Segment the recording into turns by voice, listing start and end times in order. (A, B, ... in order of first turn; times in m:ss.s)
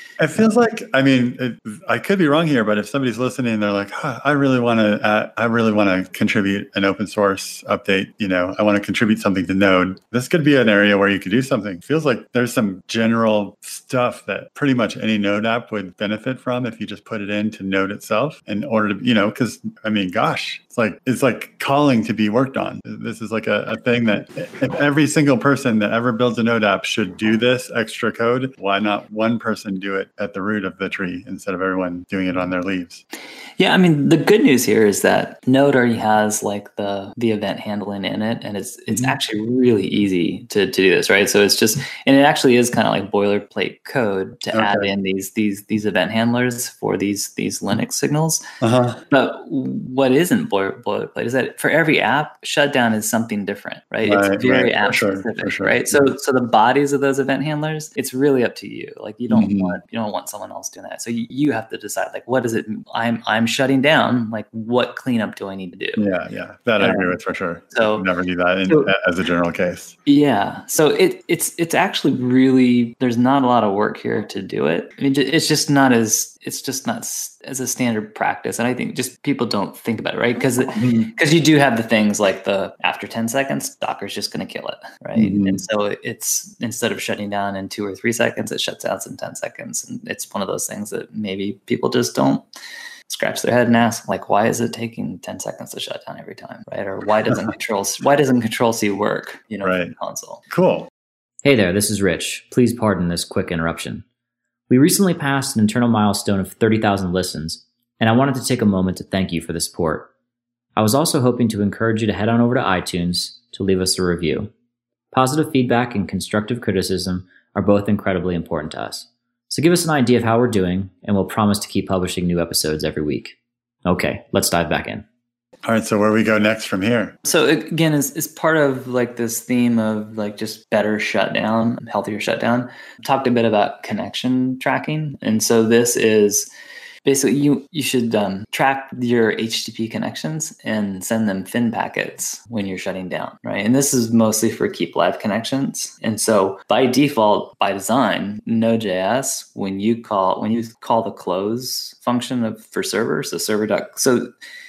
0:00.2-0:33.0 A
0:33.6-0:48.4 B
0:38.9-0:39.2 A
0:44.5-0:44.9 A
0:48.6-0:49.0 A
0:49.1-1:06.0 B
0:54.0-0:56.0 A
0:59.3-0:59.8 A
1:06.0-1:10.0 A
1:06.8-1:07.1 B
1:07.7-1:08.0 B
1:10.0-1:32.4 B
1:20.8-1:21.1 A
1:25.2-1:25.6 A
1:33.1-1:40.4 B
1:39.6-1:39.9 A
1:40.5-1:40.9 A
1:41.4-1:44.0 C
1:44.7-1:50.1 C
1:50.8-1:54.5 C
1:55.1-2:05.0 C
2:05.6-2:07.2 A
2:07.2-2:16.5 B
2:17.0-2:34.3 B